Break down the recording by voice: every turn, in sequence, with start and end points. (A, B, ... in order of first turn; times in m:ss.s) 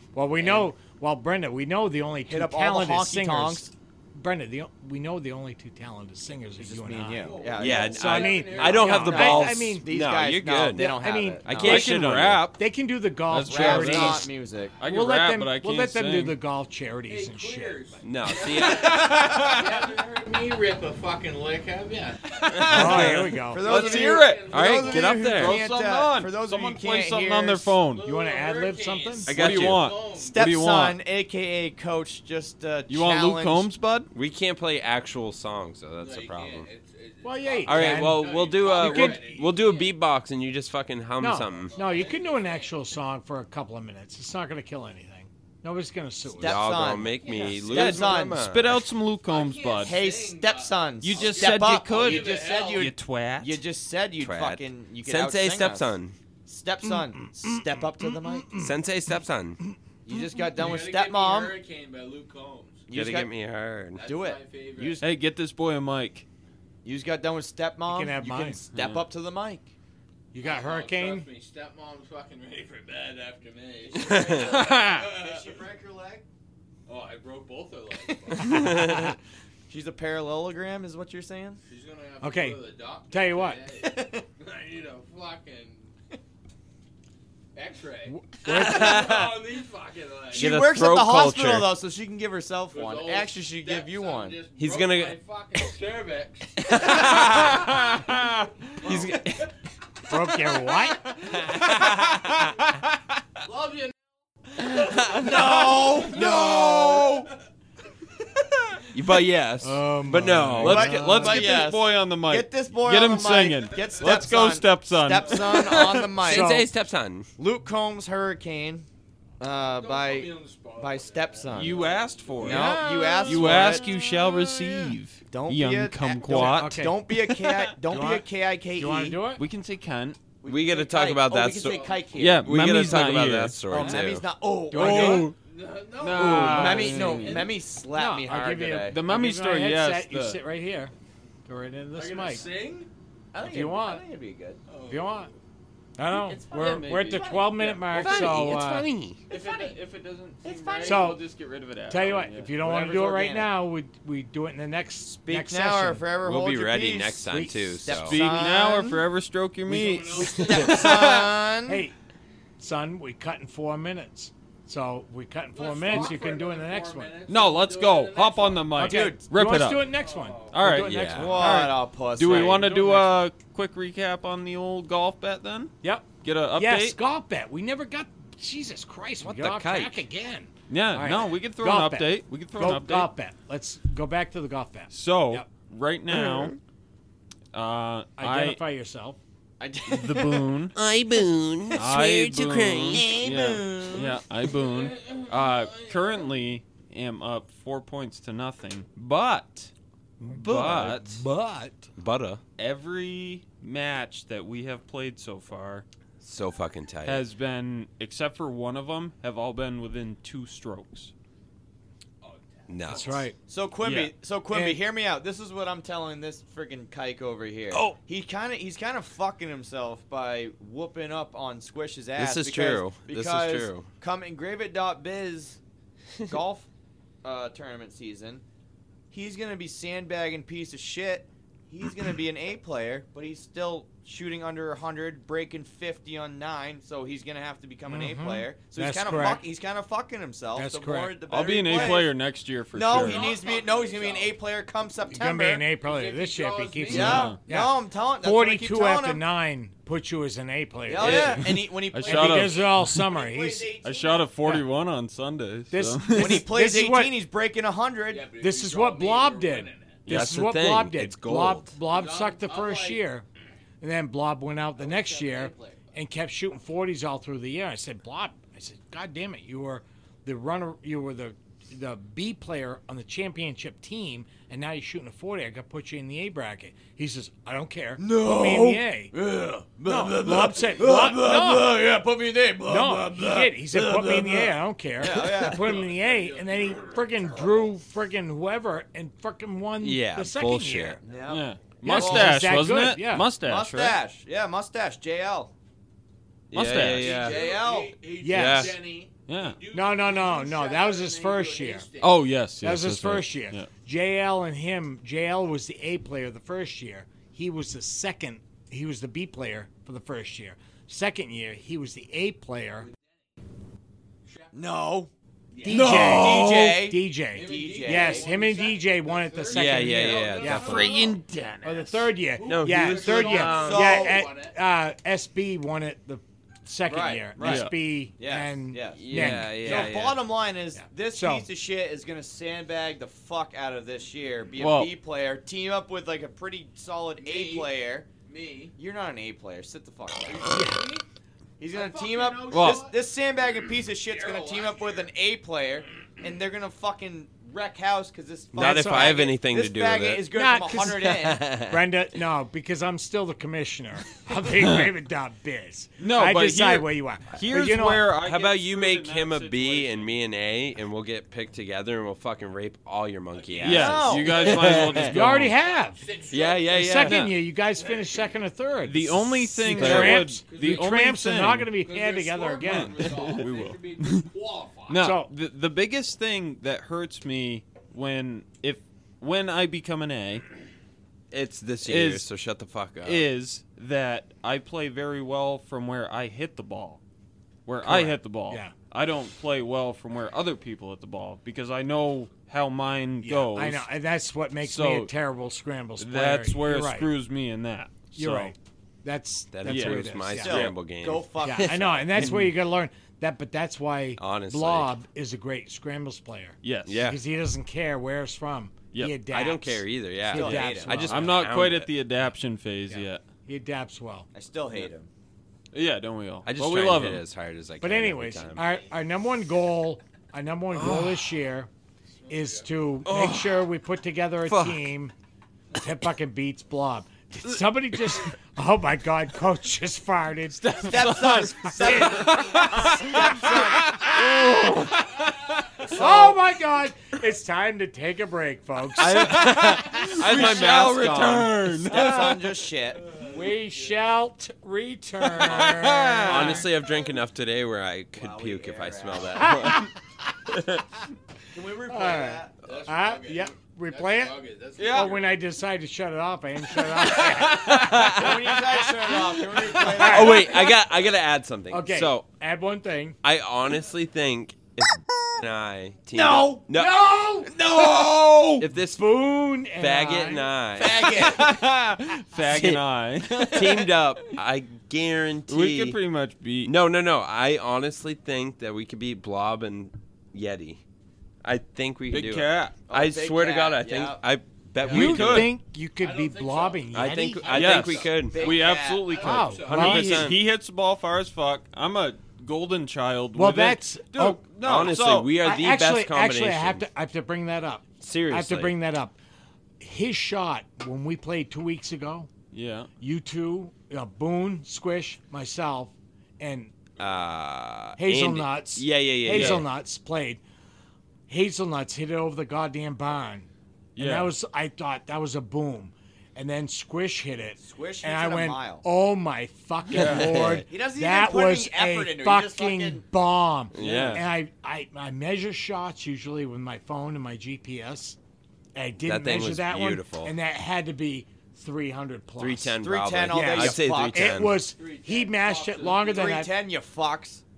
0:00.1-0:09.9 A
0:00.4-0:00.7 B
0:02.3-0:03.7 B
0:06.6-0:11.9 B
0:07.1-0:09.1 C
0:07.5-0:10.8 D
0:10.7-0:11.5 A
0:11.4-0:12.6 D
0:11.5-0:12.5 E
0:12.6-0:14.3 A
0:13.3-0:16.4 E
0:13.4-0:14.8 B
0:13.8-0:14.2 D
0:14.8-0:18.0 A
0:17.1-0:22.6 C
0:18.0-0:19.8 D
0:22.5-0:23.3 D
0:22.7-0:28.0 E
0:22.7-0:23.7 A
0:22.8-0:27.8 B
0:23.6-0:25.1 C
0:24.5-0:25.6 D
0:27.9-0:30.4 C
0:28.0-0:29.3 A
0:29.3-0:30.0 D
0:29.3-0:31.0 E
0:30.1-0:33.7 B
0:32.9-0:34.1 E
0:34.1-0:36.7 D
0:36.0-0:40.0 C
0:37.2-0:39.2 A
0:37.6-0:41.8 D
0:41.2-0:46.6 A
0:41.4-0:42.8 C
0:46.3-0:48.4 B
0:46.4-0:48.8 D
0:47.1-0:48.2 C
0:47.8-0:50.0 E
0:49.2-0:52.9 C
0:49.8-0:55.9 B
0:51.0-0:53.6 E
0:54.2-0:56.2 D
0:56.5-0:58.6 B
0:56.8-0:58.7 A
0:58.6-0:59.6 D
0:59.6-1:00.7 A
1:00.0-1:01.6 B
1:00.6-1:02.9 C
1:02.9-1:03.3 B
1:02.9-1:04.0 D
1:04.0-1:05.0 C
1:04.0-1:05.1 B
1:05.0-1:06.2 E
1:06.8-1:09.7 B
1:07.9-1:08.6 A
1:08.7-1:09.1 E
1:10.3-1:11.3 A
1:10.4-1:15.5 C
1:14.0-1:14.4 D
1:14.2-1:16.3 B
1:14.3-1:15.0 E
1:16.9-1:18.6 C
1:18.3-1:19.0 B
1:18.5-1:19.1 D
1:18.6-1:19.1 A
1:19.7-1:21.6 B
1:21.7-1:25.9 C
1:22.2-1:22.6 A
1:23.1-1:23.6 A
1:23.8-1:24.2 B
1:27.6-1:30.6 C
1:28.1-1:29.0 A
1:28.5-1:29.3 D
1:30.3-1:31.7 D
1:30.3-1:34.4 B
1:32.7-1:36.6 C
1:34.6-1:35.2 D
1:36.6-1:37.6 D
1:36.8-1:37.3 B
1:36.9-1:38.5 E
1:38.8-1:39.5 D
1:40.1-1:41.1 A
1:41.2-1:42.5 D
1:43.4-1:44.0 C
1:44.6-1:46.3 C
1:44.7-1:47.3 D
1:45.2-1:47.3 B
1:48.9-1:51.1 D
1:49.6-1:51.5 A
1:50.6-1:56.7 B
1:50.6-1:56.0 E
1:53.8-1:54.2 C
1:55.2-1:55.5 C
1:55.6-1:57.3 D
1:56.3-1:56.7 A
1:57.4-1:58.9 B
1:59.4-2:01.9 B
1:59.5-2:03.6 C
2:01.5-2:08.1 E
2:02.4-2:03.9 B
2:03.8-2:04.4 D
2:05.3-2:09.2 B
2:06.3-2:07.0 A
2:07.9-2:09.4 A
2:09.4-2:10.2 E
2:10.4-2:12.6 B
2:10.5-2:14.2 D
2:11.6-2:12.2 C
2:12.2-2:14.0 E
2:13.7-2:15.3 B
2:13.7-2:14.0 A
2:14.7-2:15.3 A
2:14.7-2:15.4 E
2:15.4-2:17.5 C
2:16.0-2:17.5 E
2:16.2-2:19.0 B
2:16.2-2:17.2 A
2:17.9-2:20.9 A
2:18.9-2:20.4 E
2:21.5-2:22.5 A
2:21.9-2:22.9 C
2:23.3-2:24.6 B
2:23.4-2:24.0 A
2:24.7-2:25.3 C
2:24.9-2:25.3 A
2:26.0-2:28.9 A
2:26.5-2:28.5 E
2:27.9-2:29.2 D
2:29.3-2:29.8 C
2:29.3-2:32.5 E
2:30.5-2:30.7 C
2:30.6-2:31.1 B
2:30.8-2:31.2 A
2:31.9-2:36.0 A
2:32.6-2:33.5 B
2:35.2-2:37.2 B
2:36.2-2:38.3 D
2:37.2-2:37.9 A
2:37.8-2:39.0 B
2:37.9-2:41.3 E
2:39.7-2:40.7 A
2:39.9-2:41.0 C
2:40.4-2:40.8 D
2:40.4-2:41.8 B
2:41.7-2:42.0 A
2:42.6-2:47.1 A
2:45.5-2:48.8 C
2:45.9-2:46.1 E
2:47.3-2:49.9 E
2:48.8-2:53.2 A
2:48.8-2:49.2 B
2:49.9-2:50.6 C
2:50.5-2:51.6 E
2:50.7-2:51.4 D
2:51.1-2:52.7 B
2:52.2-2:57.0 E
2:55.8-3:05.5 A
2:59.2-3:00.0 B
3:00.7-3:03.1 E
3:04.9-3:06.6 E
3:06.1-3:06.5 D
3:07.5-3:08.6 E
3:08.2-3:09.2 A
3:09.6-3:13.6 D
3:09.9-3:10.8 E
3:11.8-3:19.7 E
3:13.4-3:14.2 B
3:14.5-3:16.2 C
3:20.2-3:21.9 A
3:20.4-3:21.2 E
3:20.4-3:21.0 D
3:22.0-3:22.4 D
3:22.6-3:25.8 E
3:26.2-3:27.2 D
3:27.0-3:31.1 E
3:32.2-3:33.2 C
3:32.7-3:33.3 D
3:32.9-3:33.4 A
3:33.5-3:45.6 B
3:33.8-3:34.1 E
3:34.5-3:34.8 A
3:42.2-3:43.9 D
3:46.3-3:46.7 B
3:47.2-3:48.4 B
3:49.1-4:02.1 B
3:57.9-3:59.4 A
4:00.5-4:01.2 A
4:01.3-4:03.3 E
4:02.7-4:05.6 B
4:03.0-4:04.4 C
4:05.1-4:11.5 A
4:05.8-4:07.4 C
4:06.9-4:09.2 B
4:06.9-4:07.4 E
4:10.8-4:14.3 B
4:11.0-4:13.0 E
4:12.0-4:13.7 A
4:13.8-4:16.5 E
4:15.7-4:17.2 A
4:16.2-4:18.3 B
4:18.1-4:20.1 C
4:18.4-4:23.2 A
4:20.1-4:21.8 D
4:21.9-4:23.0 C
4:23.8-4:39.2 A
4:24.8-4:25.9 C
4:38.0-4:45.8 B
4:39.8-4:41.8 A
4:42.7-4:51.0 A
4:45.0-4:45.5 D
4:45.7-4:47.4 C
4:49.8-4:51.0 D
4:51.0-4:52.6 B
4:51.3-4:54.0 E
4:51.8-4:53.3 A
4:53.4-4:55.5 B
4:56.5-4:57.5 D
4:56.5-4:57.3 E
4:56.9-5:02.3 C
4:57.0-4:57.9 B
4:58.2-4:58.8 A
4:58.2-4:58.8 D
4:59.3-4:59.6 E
4:59.7-5:01.9 A
5:02.0-5:03.7 E
5:02.6-5:12.9 A
5:14.3-5:14.6 C
5:14.5-5:15.1 B
5:15.6-5:15.9 C
5:15.6-5:20.9 A
5:15.7-5:18.3 B
5:15.8-5:16.7 D
5:17.3-5:21.2 C
5:19.5-5:21.0 D
5:20.4-5:22.1 E
5:21.6-5:30.1 A
5:22.3-5:24.6 C
5:22.4-5:24.0 D
5:23.4-5:24.2 B
5:26.9-5:38.1 B
5:27.4-5:27.7 E
5:28.9-5:30.2 D
5:30.7-5:31.5 A
5:34.6-5:34.9 E
5:37.2-5:37.7 C
5:38.3-5:38.8 C
5:38.8-5:40.7 B
5:40.2-5:41.0 C
5:40.5-5:40.9 A
5:41.6-5:51.4 B
5:41.7-5:42.9 C
5:42.5-5:42.9 E
5:44.0-5:45.1 C
5:48.6-5:49.3 A
5:48.6-5:50.2 D
5:50.3-5:58.1 A
5:51.4-5:51.8 D
5:56.0-6:00.2 E
5:58.2-6:05.0 D
6:03.3-6:05.1 C
6:03.6-6:05.5 E
6:03.7-6:04.5 B
6:04.7-6:06.1 A
6:06.0-6:06.9 C
6:06.3-6:07.2 D
6:06.7-6:13.1 A
6:07.0-6:07.4 E
6:07.9-6:08.2 C
6:08.8-6:11.7 E
6:09.8-6:10.2 D
6:10.2-6:10.9 C
6:11.8-6:15.1 C
6:12.6-6:14.3 E
6:14.9-6:20.4 E
6:15.0-6:15.3 A
6:21.3-6:23.3 D
6:21.8-6:22.3 E
6:23.0-6:27.0 E
6:27.7-6:33.9 E
6:27.8-6:28.7 A
6:33.2-6:37.1 A
6:34.6-6:35.1 E
6:36.0-6:38.6 E
6:38.1-6:40.7 A
6:39.5-6:41.7 D
6:39.7-6:40.1 E
6:40.4-6:42.1 B
6:41.4-6:51.4 A
6:42.2-6:42.5 E
6:44.2-6:44.9 D
6:46.6-6:47.0 E
6:46.9-6:47.2 D
6:49.3-6:52.0 D
6:50.3-6:51.2 B
6:51.0-6:53.2 E
6:52.9-6:54.3 A
6:54.3-6:55.1 B
6:55.7-6:57.2 E
6:56.4-6:58.7 D
6:57.8-7:01.7 A
7:00.7-7:01.3 D
7:02.3-7:02.7 C
7:02.3-7:05.1 A
7:03.1-7:03.7 D
7:04.4-7:04.9 D
7:05.8-7:13.3 A
7:10.7-7:13.9 B
7:10.9-7:11.3 E
7:11.9-7:15.0 D
7:12.6-7:14.8 E
7:15.8-7:16.4 B
7:15.9-7:19.4 A
7:19.0-7:22.4 E
7:19.0-7:21.9 D
7:20.2-7:23.0 B
7:23.2-7:23.9 C
7:23.2-7:26.7 A
7:25.4-7:29.9 D
7:25.5-7:26.6 E
7:28.2-7:29.5 B
7:29.4-7:29.9 E
7:30.5-7:30.8 D
7:31.5-7:32.5 B
7:31.9-7:34.4 A
7:32.7-7:35.3 C
7:34.8-7:35.1 D
7:34.8-7:35.1 E
7:34.9-7:38.3 A
7:37.0-7:38.3 D
7:37.8-7:39.9 E
7:37.9-7:40.7 B
7:39.8-7:40.8 A
7:40.0-7:42.2 D
7:41.7-7:43.2 A
7:43.2-7:52.8 D
7:46.1-7:46.6 B
7:46.7-7:47.5 A
7:47.7-7:48.6 B
7:48.9-7:51.0 A
7:50.8-7:51.4 B
7:52.3-7:54.0 E
7:53.4-7:56.0 D
7:55.5-7:56.7 E
7:56.6-8:00.8 D
8:01.4-8:05.5 D
8:02.1-8:02.8 E
8:02.9-8:04.2 B
8:04.8-8:05.2 C
8:04.8-8:07.7 A
8:04.9-8:05.5 E
8:06.0-8:10.2 C
8:06.9-8:08.5 D
8:07.5-8:15.1 E
8:08.3-8:09.1 B
8:09.2-8:10.2 A
8:09.6-8:10.4 D
8:13.4-8:19.2 A
8:14.6-8:16.8 D
8:18.0-8:18.7 D
8:19.8-8:22.3 A
8:22.5-8:22.9 E
8:23.0-8:26.7 A
8:27.0-8:29.7 D
8:28.0-8:30.4 A
8:29.3-8:29.7 E
8:31.3-8:48.2 A
8:34.0-8:34.3 E
8:37.6-8:38.8 B
8:39.9-8:40.4 E
8:40.1-8:40.4 D
8:40.6-8:43.0 B
8:43.7-8:44.2 D
8:43.8-8:44.2 E
8:48.8-8:52.8 A
8:49.0-8:50.3 D
8:52.4-8:54.7 D
8:52.8-8:54.5 B
8:53.3-8:56.5 A
8:54.6-8:56.3 C
8:56.0-8:57.4 B